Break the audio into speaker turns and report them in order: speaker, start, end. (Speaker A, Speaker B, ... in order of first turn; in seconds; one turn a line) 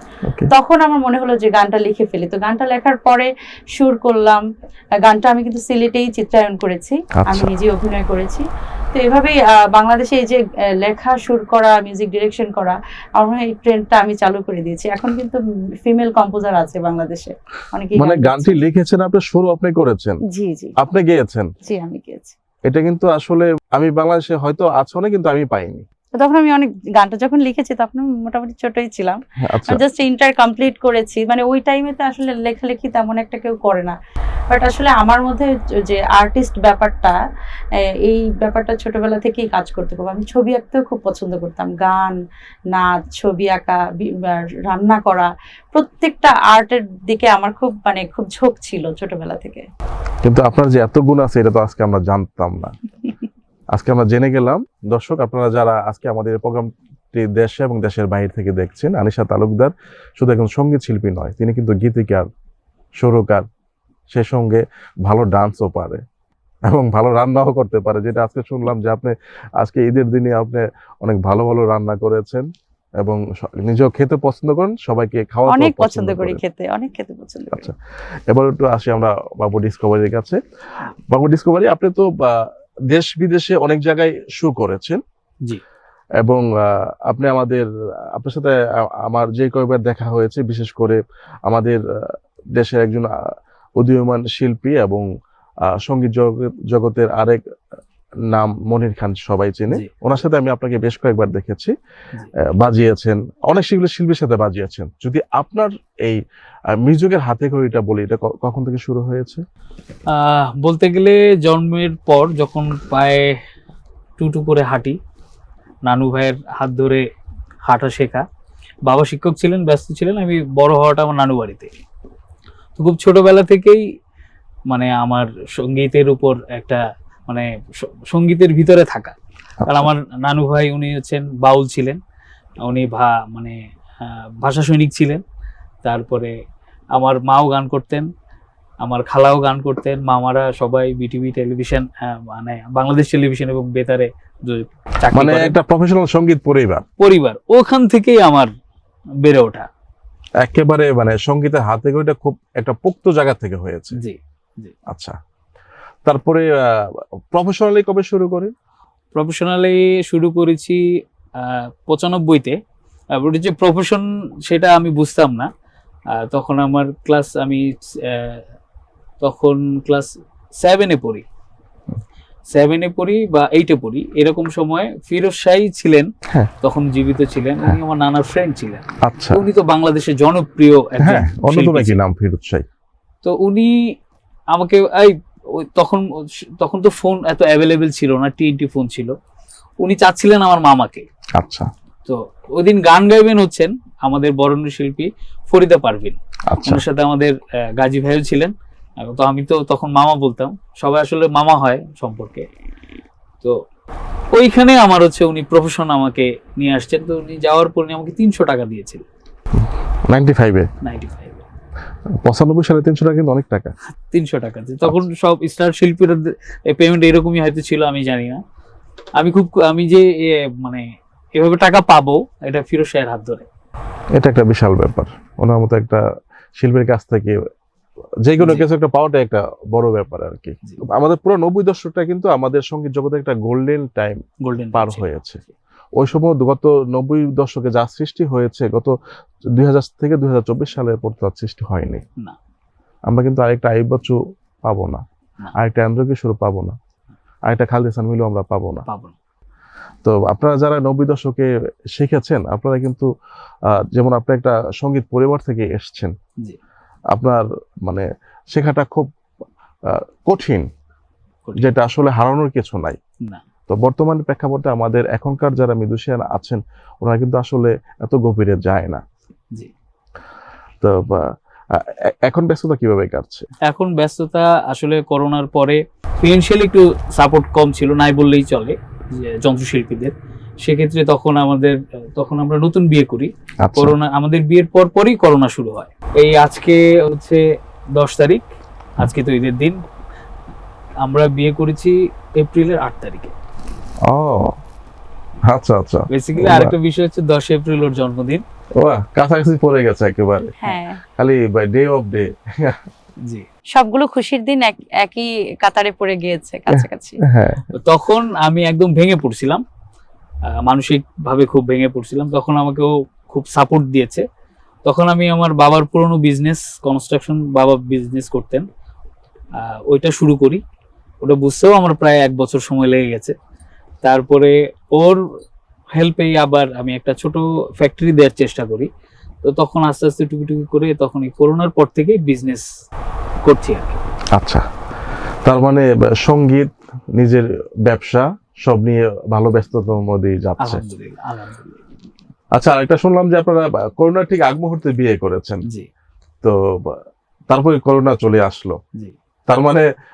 Speaker A: 0.5-4.4
Speaker A: 5.0-18.6
Speaker B: 7.2-7.5
Speaker B: 18.0-20.2
Speaker A: 20.3-20.8
Speaker B: 20.8-21.5
Speaker A: 21.6-22.4
Speaker B: 22.7-25.9
Speaker A: 26.2-34.0
Speaker B: 29.4-29.8
Speaker A: 34.5-37.2
Speaker A: 38.0-42.2
Speaker A: 42.7-49.6
Speaker B: 50.2-52.8
Speaker B: 53.7-62.3
Speaker B: 63.0-63.5
Speaker B: 64.1-66.0
Speaker B: 66.7-72.5
Speaker B: 73.0-76.4
Speaker A: 75.5-77.7
Speaker B: 78.3-80.4
Speaker B: 81.1-85.0
Speaker B: 86.2-93.1
Speaker B: 93.8-95.1
Speaker B: 95.6-97.4
Speaker B: 98.3-101.7
Speaker B: 102.4-106.2
Speaker B: 106.7-109.4
Speaker C: 110.1-113.3
Speaker C: 114.2-115.0
Speaker C: 115.8-117.0
Speaker C: 117.7-118.2
Speaker C: 118.8-121.7
Speaker C: 122.8-123.8
Speaker C: 124.7-129.2
Speaker B: 129.6-129.9
Speaker C: 129.7-132.0
Speaker C: 132.6-135.2
Speaker C: 135.8-136.3
Speaker C: 136.9-138.1
Speaker C: 138.8-145.5
Speaker B: 145.1-146.8
Speaker C: 147.0-148.5
Speaker C: 149.2-149.7
Speaker B: 150.4-154.0
Speaker C: 153.9-154.7
Speaker B: 154.9-155.2
Speaker B: 156.1-158.5
Speaker C: 159.1-160.8
Speaker C: 161.4-162.6
Speaker C: 163.2-165.5
Speaker C: 166.1-168.4
Speaker C: 169.2-171.2
Speaker C: 172.5-176.1
Speaker C: 176.6-182.0
Speaker B: 179.0-179.4
Speaker B: 181.0-182.7
Speaker C: 183.2-183.7
Speaker C: 184.5-186.1
Speaker C: 186.6-189.2
Speaker C: 189.8-191.1
Speaker B: 191.4-191.7
Speaker C: 192.1-202.5
Speaker B: 196.5-196.8
Speaker C: 204.3-209.1
Speaker B: 209.6-210.7
Speaker C: 210.8-211.4
Speaker B: 212.1-213.7
Speaker C: 214.1-218.4
Speaker C: 219.2-220.8
Speaker C: 221.4-223.5
Speaker B: 224.2-226.0
Speaker B: 226.6-227.4
Speaker B: 228.2-234.2
Speaker C: 228.4-228.7
Speaker C: 234.4-235.5
Speaker B: 234.7-235.4
Speaker B: 236.0-238.9
Speaker B: 239.5-242.0
Speaker B: 243.1-245.0
Speaker B: 245.6-246.8
Speaker B: 247.5-248.9
Speaker C: 248.9-249.2
Speaker B: 250.0-253.1
Speaker B: 253.7-256.1
Speaker B: 257.1-259.1
Speaker B: 259.9-260.7
Speaker B: 261.6-263.0
Speaker B: 263.7-269.0
Speaker B: 270.8-273.5
Speaker C: 273.7-287.4
Speaker B: 283.6-284.0
Speaker C: 287.9-288.5
Speaker C: 289.0-289.8
Speaker C: 291.0-293.3
Speaker B: 294.1-294.6
Speaker B: 295.4-296.8
Speaker C: 296.1-298.4
Speaker B: 298.8-302.8
Speaker A: 300.6-301.0
Speaker A: 303.7-307.2
Speaker B: 306.7-307.6
Speaker C: 307.7-309.6
Speaker C: 310.5-314.2
Speaker C: 314.9-318.7
Speaker C: 319.6-320.6
Speaker C: 321.2-323.4
Speaker C: 324.0-325.2
Speaker C: 325.9-328.9
Speaker C: 329.4-332.7
Speaker C: 333.4-334.0
Speaker B: 334.3-334.6
Speaker B: 335.4-340.8
Speaker C: 340.6-341.8
Speaker B: 342.6-345.6
Speaker B: 346.4-348.8
Speaker B: 349.5-349.9